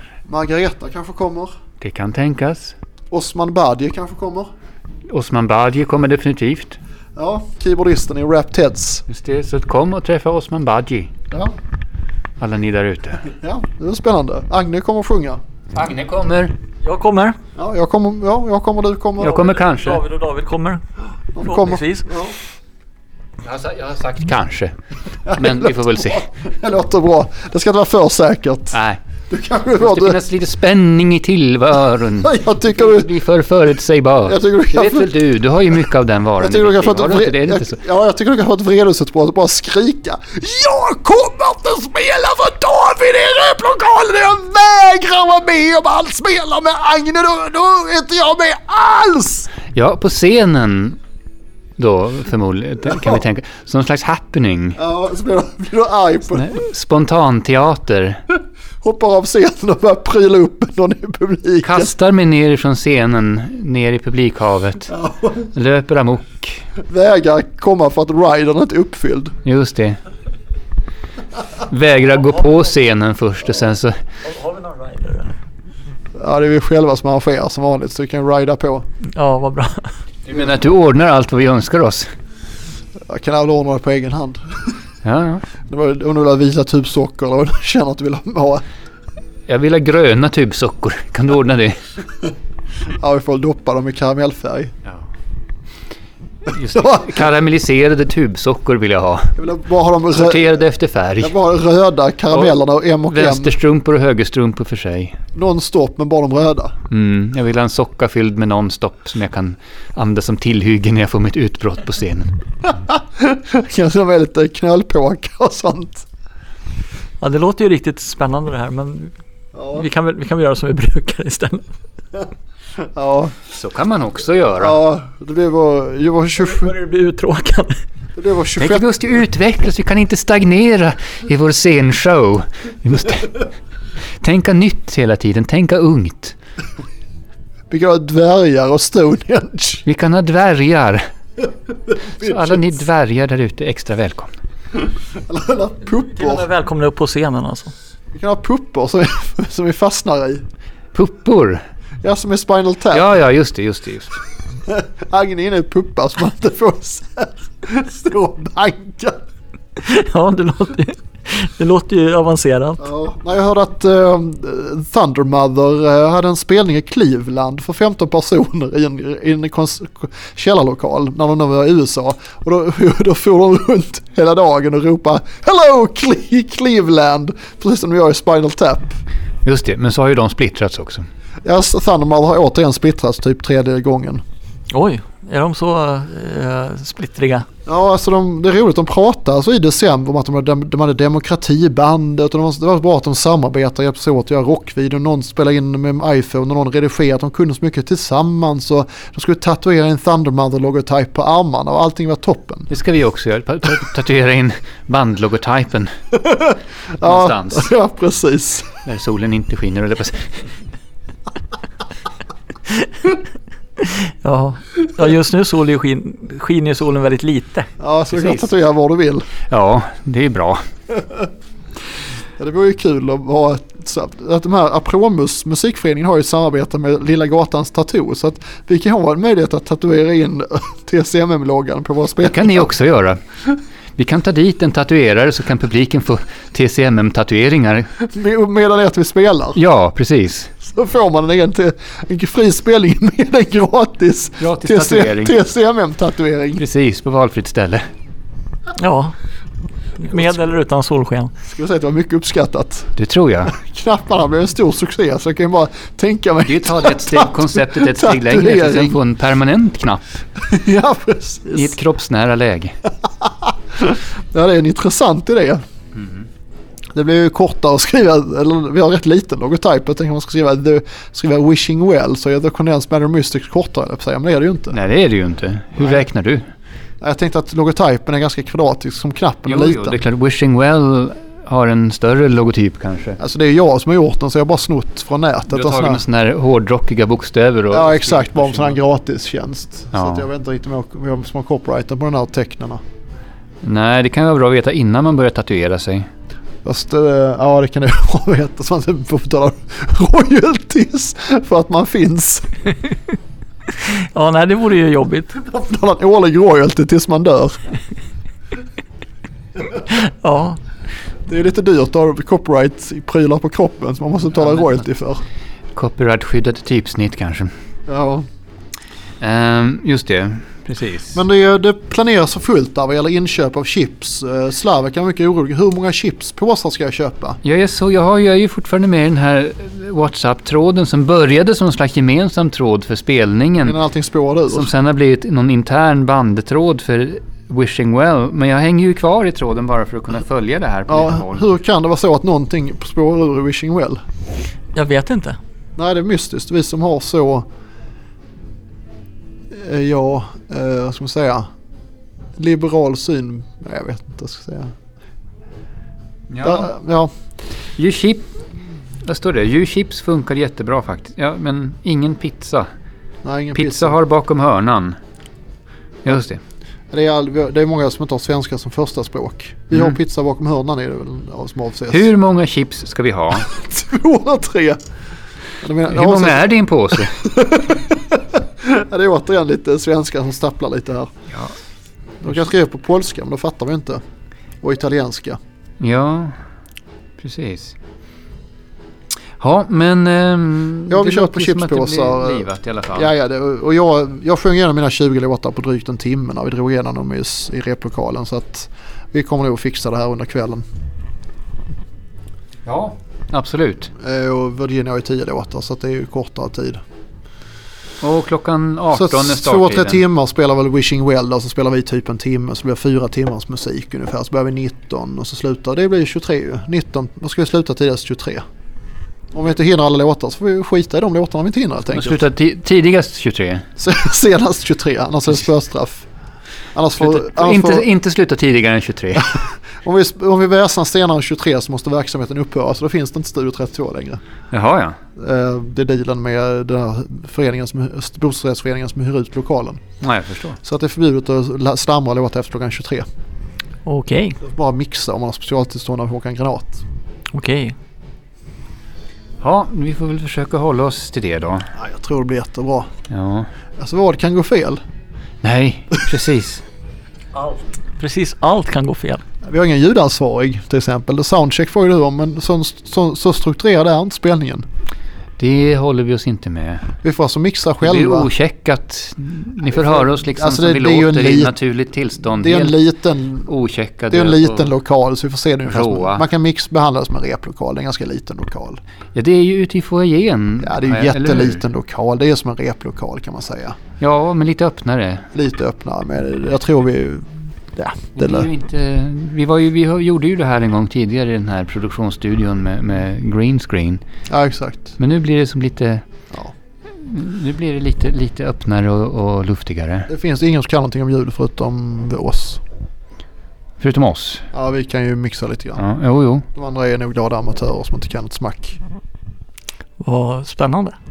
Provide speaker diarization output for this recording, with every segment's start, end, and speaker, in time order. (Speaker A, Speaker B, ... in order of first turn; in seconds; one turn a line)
Speaker A: 0.2-1.5
Speaker B: 1.8-2.8
Speaker A: 3.1-4.5
Speaker B: 5.1-6.8
Speaker A: 7.2-9.1
Speaker B: 9.1-11.1
Speaker B: 12.4-13.3
Speaker A: 13.3-15.4
Speaker B: 15.7-16.5
Speaker C: 16.8-17.4
Speaker A: 17.6-19.5
Speaker B: 19.2-20.0
Speaker C: 19.5-20.8
Speaker A: 21.3-22.3
Speaker C: 21.4-22.1
Speaker B: 23.4-24.7
Speaker A: 25.2-30.2
Speaker B: 25.3-26.3
Speaker B: 28.7-29.0
Speaker B: 29.8-37.8
Speaker A: 32.2-33.1
Speaker A: 34.2-35.1
Speaker A: 36.4-49.5
Speaker B: 49.7-51.0
Speaker B: 51.8-54.8
Speaker A: 54.8-56.6
Speaker B: 56.3-58.2
Speaker A: 58.8-61.9
Speaker B: 61.6-66.6
Speaker A: 64.9-65.5
Speaker A: 66.8-69.3
Speaker B: 69.4-70.0
Speaker B: 71.6-74.0
Speaker C: 74.2-75.3
Speaker A: 76.2-78.8
Speaker C: 79.1-79.9
Speaker B: 80.2-82.1
Speaker A: 83.1-84.4
Speaker B: 85.0-85.4
Speaker A: 85.6-88.6
Speaker B: 89.5-91.8
Speaker A: 93.0-94.7
Speaker B: 96.5-99.3
Speaker A: 96.8-97.1
Speaker A: 99.3-100.6
Speaker B: 100.1-101.3
Speaker A: 101.2-103.5
Speaker B: 102.3-105.2
Speaker A: 105.3-106.7
Speaker B: 106.9-112.3
Speaker A: 112.8-116.0
Speaker C: 117.2-119.1
Speaker A: 119.5-119.9
Speaker C: 119.7-121.7
Speaker A: 122.9-123.4
Speaker B: 123.5-124.8
Speaker A: 124.6-126.8
Speaker C: 126.3-127.8
Speaker A: 128.2-128.9
Speaker B: 128.6-133.5
Speaker B: 134.2-136.3
Speaker A: 137.7-139.8
Speaker B: 139.8-141.0
Speaker A: 142.2-142.6
Speaker B: 142.2-144.3
Speaker A: 145.1-146.5
Speaker C: 146.1-147.7
Speaker A: 148.1-150.4
Speaker B: 150.9-151.6
Speaker A: 152.0-153.1
Speaker B: 152.9-154.2
Speaker A: 154.7-159.2
Speaker C: 159.8-162.8
Speaker A: 162.8-179.0
Speaker B: 179.4-181.1
Speaker A: 181.4-184.2
Speaker C: 184.7-187.4
Speaker A: 187.7-202.7
Speaker B: 202.7-205.9
Speaker A: 206.2-208.8
Speaker B: 207.0-207.7
Speaker B: 208.8-210.3
Speaker C: 212.8-213.2
Speaker C: 213.8-217.7
Speaker A: 217.8-219.3
Speaker B: 219.5-220.6
Speaker A: 222.4-232.7
Speaker B: 232.2-233.2
Speaker B: 234.0-237.9
Speaker A: 238.0-239.6
Speaker B: 239.5-240.5
Speaker A: 240.6-246.6
Speaker B: 244.4-245.4
Speaker B: 246.6-247.8
Speaker C: 248.8-249.1
Speaker C: 250.0-251.3
Speaker A: 251.4-252.9
Speaker B: 252.9-253.5
Speaker A: 253.5-259.0
Speaker B: 256.5-260.0
Speaker A: 260.4-261.7
Speaker B: 261.5-262.8
Speaker A: 263.2-265.6
Speaker B: 266.0-266.2
Speaker A: 266.9-274.8
Speaker B: 274.7-276.4
Speaker A: 275.8-276.0
Speaker A: 277.0-280.0
Speaker B: 279.4-283.2
Speaker A: 283.2-286.0
Speaker B: 285.5-288.8
Speaker A: 287.7-292.8
Speaker B: 289.9-290.3
Speaker B: 293.6-296.1
Speaker A: 296.6-302.6
Speaker C: 303.8-305.4
Speaker A: 305.4-307.6
Speaker C: 309.9-310.6
Speaker A: 311.3-315.2
Speaker B: 315.7-317.5
Speaker A: 317.9-318.2
Speaker B: 319.2-321.2
Speaker A: 321.1-327.4
Speaker B: 327.4-333.8
Speaker A: 333.6-334.7
Speaker B: 334.5-341.5
Speaker A: 340.9-344.0
Speaker C: 344.7-345.4
Speaker A: 345.8-347.4
Speaker A: 349.5-351.5
Speaker A: 352.4-354.7
Speaker B: 356.3-356.7
Speaker A: 356.4-357.1
Speaker B: 357.8-358.3
Speaker B: 359.0-362.7
Speaker A: 363.2-364.0
Speaker B: 363.5-365.0
Speaker B: 366.0-366.4
Speaker A: 366.9-372.1
Speaker B: 369.7-370.0
Speaker B: 371.9-373.5
Speaker A: 373.4-374.8
Speaker A: 375.6-381.1
Speaker B: 375.9-377.2
Speaker A: 382.2-384.0
Speaker A: 384.6-385.4
Speaker B: 385.8-386.4
Speaker B: 387.2-387.8
Speaker B: 389.4-393.1
Speaker A: 390.9-400.6
Speaker B: 402.6-403.9
Speaker A: 404.0-406.8
Speaker B: 408.0-410.0
Speaker A: 408.9-418.4
Speaker A: 419.3-422.2
Speaker B: 421.9-423.7
Speaker A: 423.8-426.1
Speaker A: 426.7-427.9
Speaker B: 427.0-429.3
Speaker A: 429.2-434.2
Speaker B: 434.5-435.0
Speaker A: 435.1-439.8
Speaker B: 440.0-440.6
Speaker A: 440.6-443.1
Speaker C: 443.8-444.4
Speaker A: 444.4-446.8
Speaker C: 447.3-447.7
Speaker B: 449.4-451.7
Speaker A: 451.7-452.9
Speaker B: 453.1-453.5
Speaker A: 453.8-454.8
Speaker B: 455.4-456.6
Speaker C: 457.3-459.2
Speaker A: 459.4-464.6
Speaker B: 465.4-466.9
Speaker A: 467.0-468.3
Speaker B: 467.8-472.8
Speaker A: 469.6-471.5
Speaker A: 472.4-473.5
Speaker B: 473.4-474.7
Speaker A: 474.1-478.8
Speaker B: 475.7-476.3
Speaker B: 479.1-481.6
Speaker A: 480.6-483.8
Speaker B: 484.0-485.3
Speaker A: 485.3-488.5
Speaker B: 488.2-494.0
Speaker A: 494.3-494.9
Speaker B: 495.0-496.0
Speaker B: 496.9-500.1
Speaker A: 500.1-502.6
Speaker B: 503.8-504.4
Speaker A: 504.5-505.8
Speaker B: 505.8-506.4
Speaker A: 506.5-508.8
Speaker C: 510.0-511.0